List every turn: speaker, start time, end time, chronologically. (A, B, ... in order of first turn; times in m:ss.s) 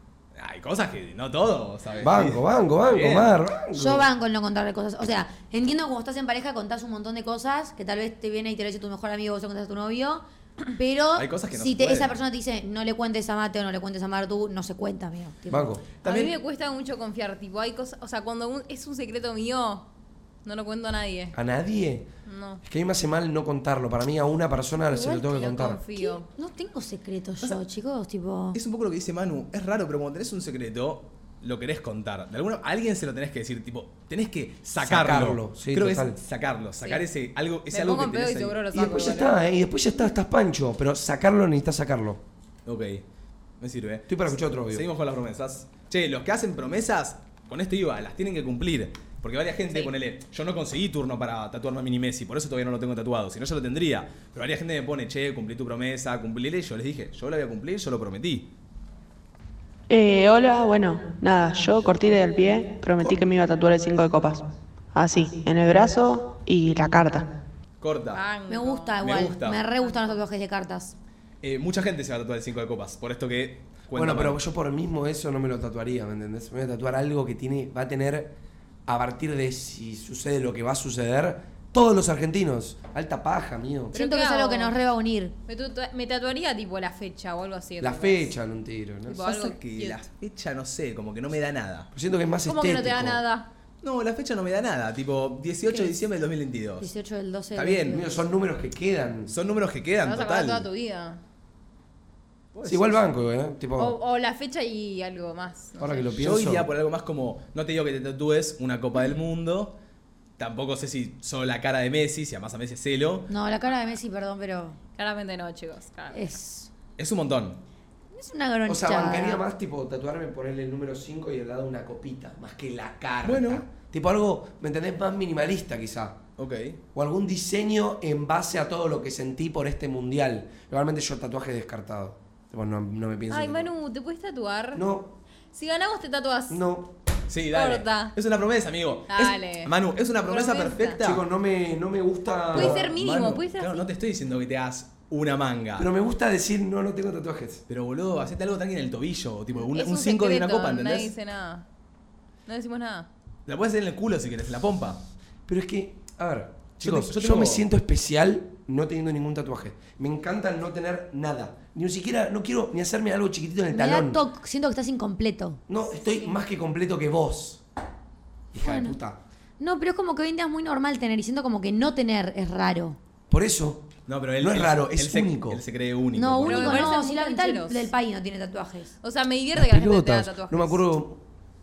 0:00.3-0:03.3 A
0:02.0-0:04.1 B
0:03.7-0:15.7 C
0:11.2-0:12.2 A
0:15.5-0:15.8 B
0:16.0-0:16.3 A
0:16.0-0:19.9 D
0:20.4-0:21.4 D
0:21.3-0:22.1 B
0:22.3-0:22.6 D
0:22.6-0:25.8 B
0:25.0-0:26.3 D
0:26.0-0:28.6 C
0:28.5-0:38.6 A
0:34.8-0:36.2 B
0:37.7-0:39.4 D
0:38.7-0:42.2 B
0:42.6-0:43.0 A
0:43.6-0:58.5 A
0:44.1-0:44.8 B
0:59.9-1:07.3 E
1:07.8-1:08.2 A
1:08.1-1:09.0 D
1:08.5-1:10.9 C
1:09.0-1:09.6 A
1:09.8-1:10.2 D
1:11.4-1:14.4 A
1:13.9-1:18.3 B
1:18.8-1:24.0 B
1:23.9-1:24.7 D
1:23.9-1:25.3 C
1:25.5-1:28.3 D
1:27.8-1:29.2 B
1:29.1-1:30.0 D
1:29.2-1:31.9 A
1:31.9-1:33.2 B
1:32.4-1:33.5 D
1:33.8-1:36.9 A
1:36.8-1:38.2 C
1:37.5-1:38.0 A
1:37.9-1:39.3 B
1:39.3-1:40.6 A
1:40.0-1:41.2 D
1:42.5-1:43.1 A
1:42.6-1:44.0 B
1:43.8-1:46.0 D
1:45.8-1:46.7 B
1:46.2-1:49.8 A
1:50.4-1:53.3 A
1:53.3-1:54.8 C
1:55.0-1:56.2 D
1:56.1-1:56.7 C
1:57.0-1:57.6 A
1:58.1-1:59.4 C
1:58.6-2:06.2 B
2:03.2-2:03.6 A
2:06.4-2:06.8 A
2:06.9-2:13.7 B
2:13.3-2:14.8 D
2:14.7-2:15.2 B
2:15.5-2:16.6 D
2:16.5-2:16.9 B
2:17.3-2:21.2 A
2:17.5-2:18.1 D
2:19.1-2:19.7 D
2:20.2-2:21.0 D
2:21.0-2:22.9 B
2:22.5-2:23.9 D
2:22.5-2:25.9 A
2:25.8-2:27.6 B
2:27.7-2:31.1 A
2:29.6-2:31.6 D
2:32.5-2:33.1 D
2:33.5-2:35.0 A
2:35.4-2:44.2 B
2:36.8-2:37.6 A
2:43.7-2:45.6 C
2:45.7-2:47.6 B
2:48.5-2:49.2 B
2:48.6-2:49.0 C
2:49.6-2:53.0 C
2:53.3-2:55.6 B
2:54.1-2:56.9 A
2:56.1-2:58.9 C
2:56.4-2:57.9 D
2:59.0-3:00.8 D
2:59.5-3:01.2 B